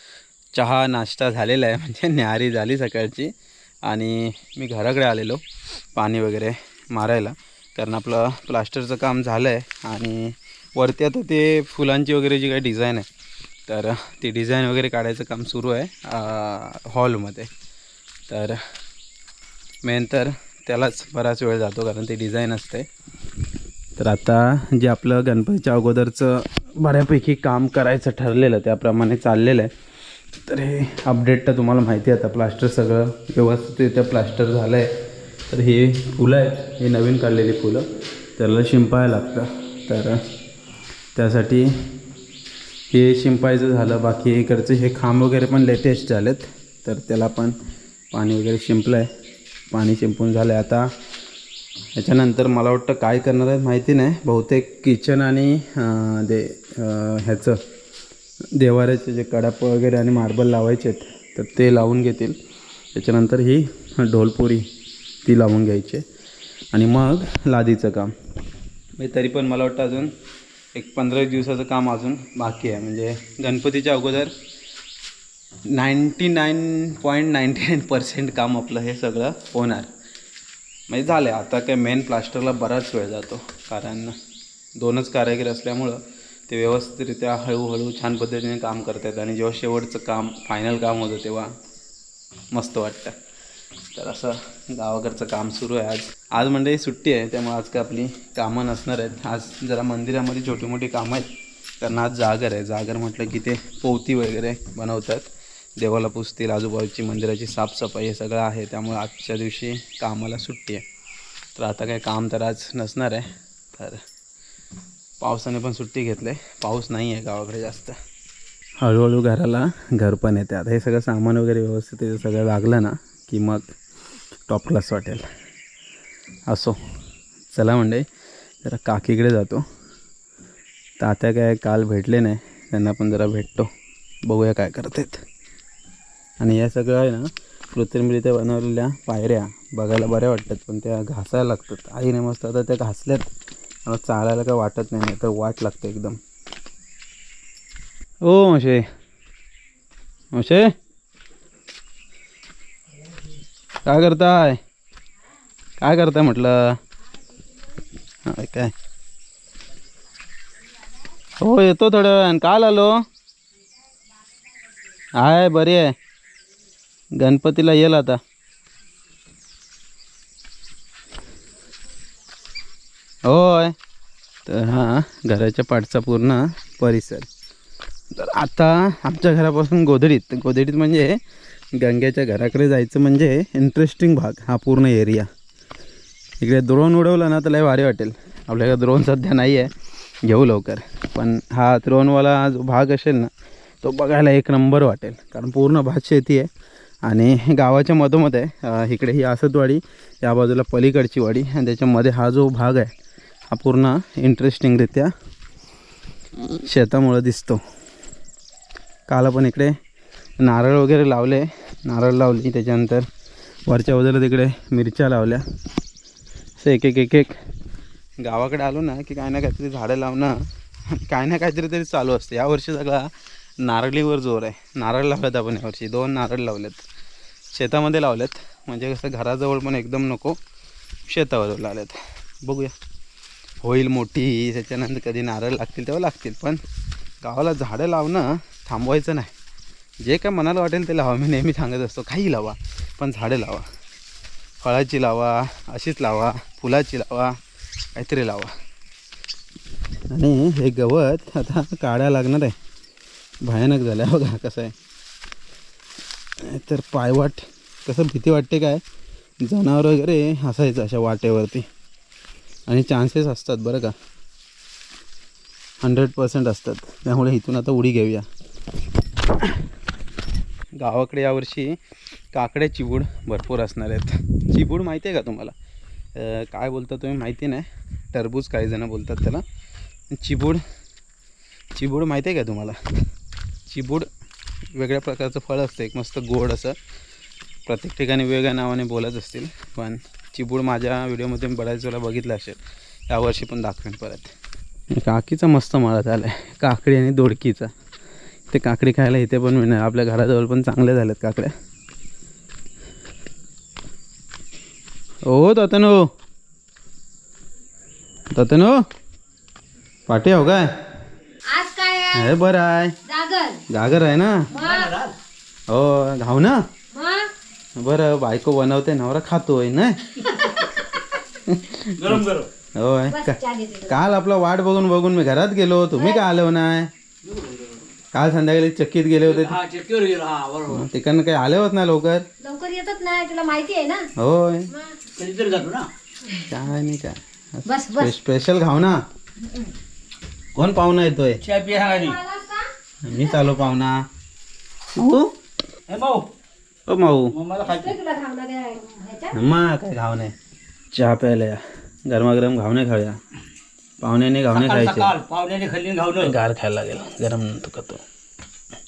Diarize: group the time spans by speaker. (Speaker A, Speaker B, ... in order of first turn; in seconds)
Speaker A: 0.5-3.3, 3.9-5.4, 6.0-13.1, 13.7-17.5, 18.3-18.6, 19.8-22.9, 24.0-29.7, 30.4-35.0, 35.5-40.2, 41.2-41.7, 42.9-47.5, 48.1-49.1, 49.7-50.9, 52.0-57.6, 58.5-62.4, 62.9-64.7, 65.2-66.0, 66.7-68.1, 69.0-70.1, 70.8-74.3, 75.7-79.9, 80.9-84.2, 84.8-91.5, 92.5-93.2, 93.9-101.3, 101.8-110.8, 111.5-114.0, 115.2-118.0, 118.8-123.7, 124.5-125.2, 126.5-126.8, 127.5-128.1, 128.6-129.6, 131.0-133.7, 134.3-135.2, 136.4-143.3, 143.8-146.2, 148.2-148.9, 150.3-150.7, 153.8-154.6, 155.8-156.8, 158.2-158.7, 161.4-163.0, 165.2-165.9, 167.2-168.2, 173.2-173.8, 174.4-177.3, 178.1-181.2, 181.8-185.3, 186.4-189.7, 190.2-193.3, 193.8-196.5, 197.1-202.9, 203.5-205.1, 206.6-207.6, 209.1-209.8, 210.4-213.1, 213.7-215.4, 216.6-217.3, 218.2-220.4, 220.9-226.8, 227.5-230.4, 231.1-232.7, 233.6-236.6, 237.2-239.3, 240.0-243.7, 244.6-247.3, 247.9-248.5, 250.1-252.6, 253.4-254.7, 256.4-258.8, 259.4-261.7, 262.7-263.9, 265.8-268.2, 270.8-271.8, 272.3-275.5, 276.1-279.4, 280.1-280.6, 281.8-282.8, 283.7-284.1, 284.8-286.8, 287.7-292.6, 293.1-294.3, 294.9-297.7, 298.5-301.5, 305.2-306.1, 308.3-308.8, 310.1-310.7, 312.1-313.0, 313.7-314.5, 315.7-316.6, 317.8-320.0, 321.4-326.9, 328.1-329.6, 330.7-332.2, 334.2-334.7, 336.5-339.0, 340.6-341.4, 343.0-344.1, 344.9-345.4, 346.9-347.3, 349.3-350.3, 350.9-353.2, 354.0-355.1, 356.2-358.0
Speaker B: 311.5-312.3, 313.1-313.6, 314.5-314.9, 316.9-317.3, 320.4-320.8, 323.1-324.0, 326.0-326.2, 332.4-334.1, 334.7-335.0, 337.6-338.1, 339.4-339.7, 341.7-343.6, 347.6-349.3
Speaker C: 314.5-315.1, 321.9-322.5, 327.2-327.8, 329.2-330.9, 335.1-335.9, 341.4-342.2, 345.9-346.3, 347.3-348.0, 354.5-356.4